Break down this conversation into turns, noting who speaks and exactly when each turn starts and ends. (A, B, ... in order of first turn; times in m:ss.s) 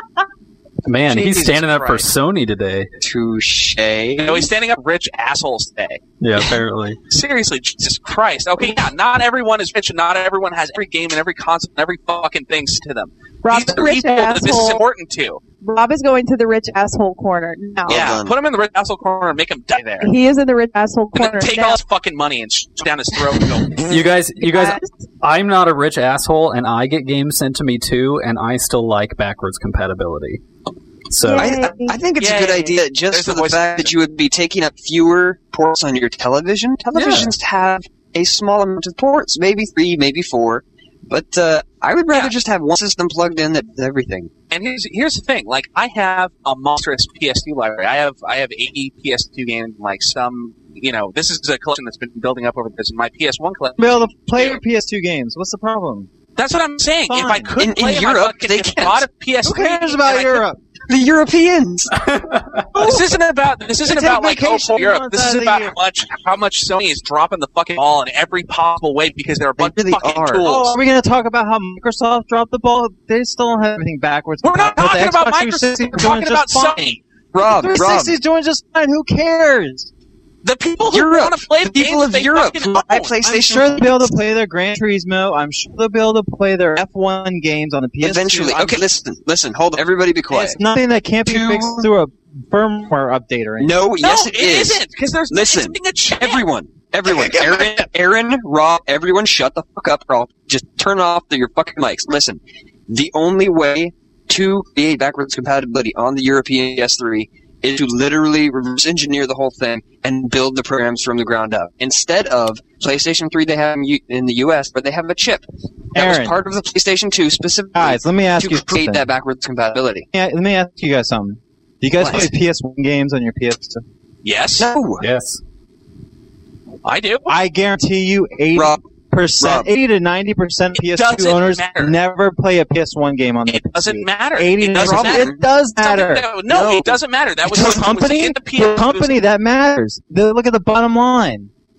0:00.8-0:02.9 A
0:01.1-0:02.1 B
0:03.0-0:04.5 C
0:04.2-0:06.0 B
0:06.2-0:07.0 A
0:07.1-0:15.4 B
0:13.4-0:14.8 D
0:15.6-0:18.0 D
0:17.9-0:18.3 C
0:17.9-0:20.1 B
0:20.0-0:21.8 D
0:21.1-0:24.0 B
0:23.7-0:30.4 A
0:24.4-0:25.0 D
0:31.1-0:31.6 A
0:31.2-0:32.0 D
0:31.3-0:44.3 C
0:32.2-0:33.9 B
0:36.9-0:37.3 B
0:44.5-0:54.6 B
0:53.8-0:56.1 E
0:56.4-1:00.4 B
0:57.1-0:57.6 E
0:57.6-0:59.0 C
0:59.4-1:00.6 E
1:00.9-1:02.1 C
1:02.0-1:02.7 A
1:02.7-1:10.7 B
1:03.8-1:05.8 E
1:09.6-1:10.5 C
1:10.4-1:19.9 E
1:14.4-1:17.0 B
1:17.3-1:18.1 C
1:20.4-1:23.1 B
1:20.8-1:24.1 C
1:23.2-1:28.8 E
1:28.0-1:30.6 C
1:30.3-1:33.8 E
1:31.2-1:31.9 C
1:33.6-2:00.1 C
1:34.0-1:36.4 B
1:37.1-1:37.9 B
1:55.9-1:56.4 E
1:57.7-1:59.1 E
2:00.1-2:03.8 E
2:02.0-2:02.3 B
2:04.2-2:04.7 B
2:04.6-2:05.0 C
2:05.0-2:05.4 A
2:06.8-2:07.3 B
2:07.3-2:16.3 E
2:08.5-2:08.8 C
2:09.4-2:09.7 C
2:10.8-2:11.9 B
2:13.5-2:19.1 B
2:14.8-2:15.4 C
2:16.5-2:17.0 C
2:17.4-2:21.5 E